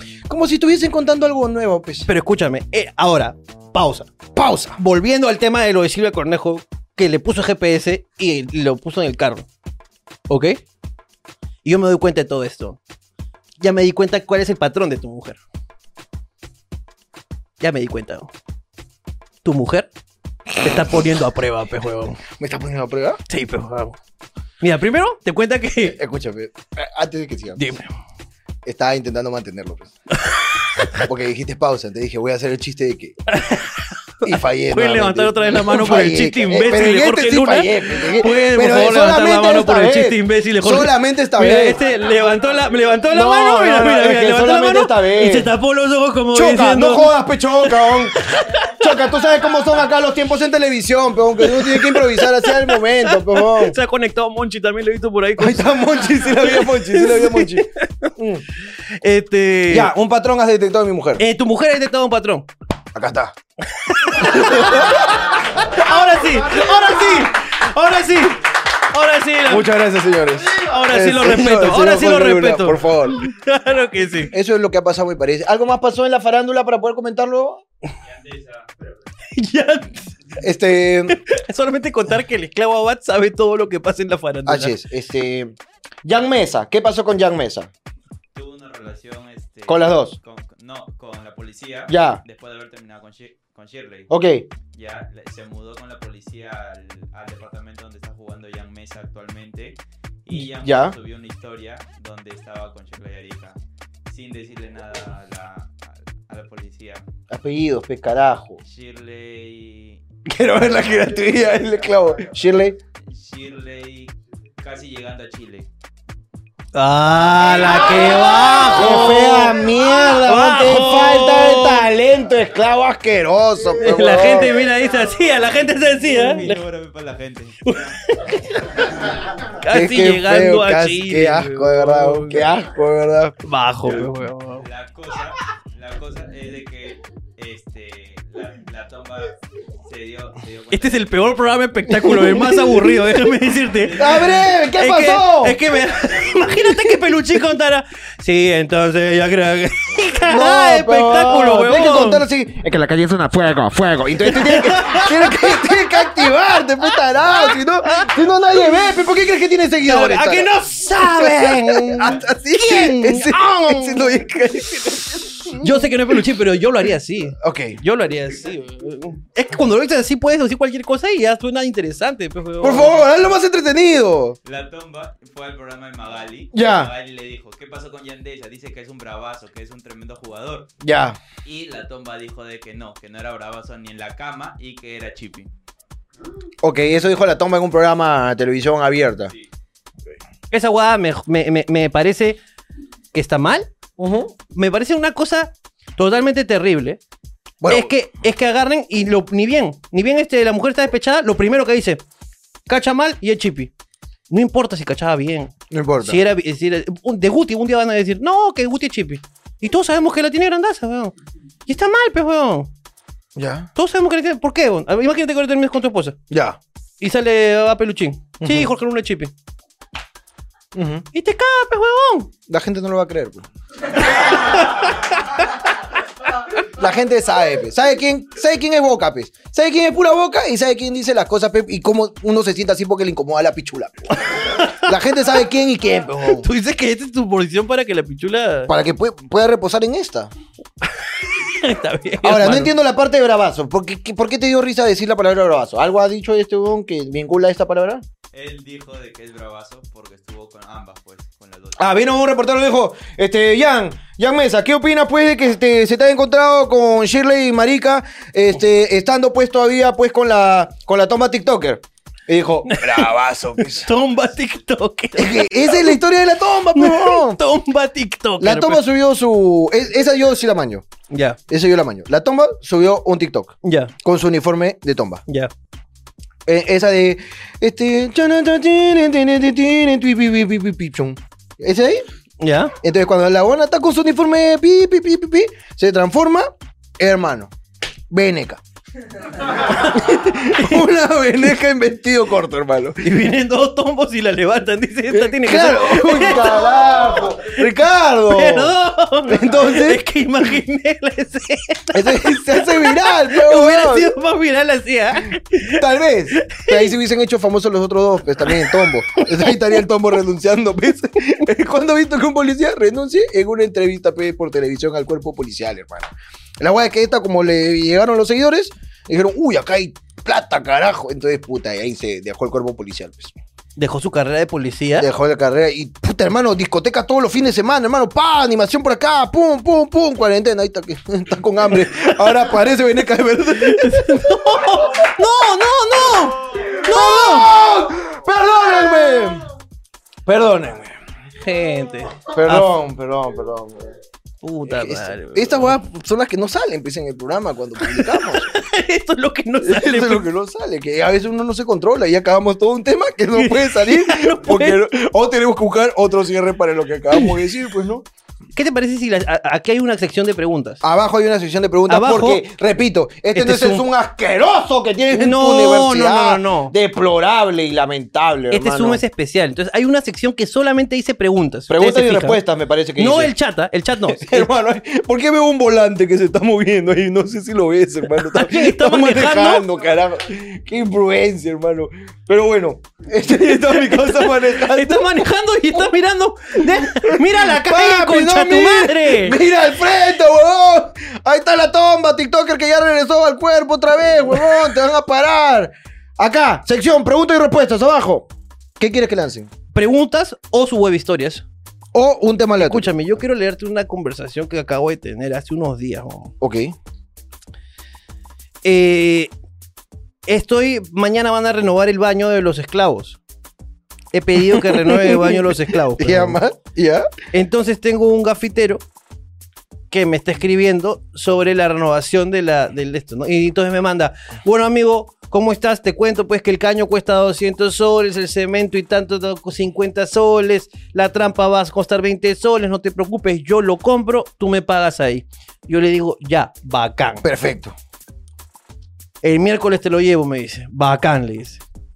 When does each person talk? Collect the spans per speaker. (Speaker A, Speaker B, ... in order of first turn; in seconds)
Speaker A: 0.3-2.1, 4.3-4.8, 22.2-23.2, 25.8-27.7, 28.6-29.9, 31.0-33.2, 34.2-41.8, 43.1-45.5, 46.3-53.8, 55.4-58.4, 59.7-61.2, 62.9-63.3, 64.1-65.1, 69.5-73.2, 74.3-77.6, 80.4-81.2, 84.5-85.5, 86.0-87.7, 89.7-90.2, 91.9-92.2, 94.1-94.5, 100.3-101.0, 107.3-108.6, 110.2-112.8, 118.7-124.5, 129.7-133.3, 141.9-143.1, 143.9-145.6, 150.2-166.2, 167.4-167.8, 172.6-174.4, 176.5-176.9, 180.8-181.2, 186.6-189.3, 194.0-194.3, 197.6-197.9, 205.7-206.2, 213.3-213.7, 216.3-216.6, 218.4-218.7, 220.7-221.1, 222.5-223.4, 226.6-236.5, 238.7-240.3, 242.2-248.0, 251.8-263.9, 265.1-267.4, 268.4-270.9, 271.5-275.2, 276.4-282.0, 282.8-287.5, 288.1-288.6, 289.5-293.0, 295.1-298.7, 299.3-300.0, 301.9-304.1, 305.6-323.3, 325.0-334.9, 336.7-339.5, 340.2-341.0, 342.3-343.9, 344.6-348.5, 349.6-358.1, 360.8-369.0, 371.7-373.3, 374.0-385.8, 386.6-399.5, 401.9-403.0, 406.4-406.8, 414.4-417.1, 437.2-437.7
Speaker B: 2.0-4.1, 4.8-9.5, 10.3-10.6, 11.6-12.8, 13.6-15.4, 17.6-18.3, 19.4-19.9, 20.6-22.2, 23.3-24.0, 24.6-26.0, 27.6-27.9, 30.2-31.0, 33.3-47.1, 47.6-48.7, 51.4-58.1, 59.0-59.9, 61.2-62.5, 63.7-69.7, 70.5-74.3, 79.3-80.1, 81.1-84.7, 116.7-121.9, 123.8-126.6, 127.7-132.5, 133.4-134.6, 140.7-152.2, 154.2-158.2, 159.8-164.2, 165.5-173.0, 190.5-192.4, 193.1-193.7, 194.5-197.0, 197.7-202.0, 202.7-203.7, 204.3-211.1, 211.7-212.7, 213.8-216.2, 217.0-219.3, 221.1-222.3, 224.3-225.0, 234.3-234.9, 236.3-238.7, 240.8-242.7, 262.6-263.1, 263.6-266.0, 266.7-268.9, 271.1-271.4, 273.6-273.9, 282.4-282.7, 289.6-290.8, 293.0-297.0, 298.3-305.8, 306.3-306.9, 308.4-309.8, 323.8-325.1, 333.5-337.5, 341.4-342.7, 344.4-345.8, 347.8-350.2, 353.3-354.8, 358.5-360.8, 361.9-362.4, 363.3-363.8, 365.1-366.7, 368.5-372.4, 373.0-374.5, 378.2-379.6, 383.4-389.4, 399.7-401.4, 402.6-406.3, 408.6-409.3, 410.3-413.2, 414.1-416.4, 417.3-418.8, 419.9-437.2, 439.2-441.6
Speaker C: 78.0-78.7, 88.3-94.1, 94.7-107.0, 108.6-111.3, 113.1-115.7, 117.6-118.4, 125.9-128.2, 134.6-141.4, 143.4-144.5, 145.7-146.7, 174.4-180.7, 181.4-185.5, 248.3-251.9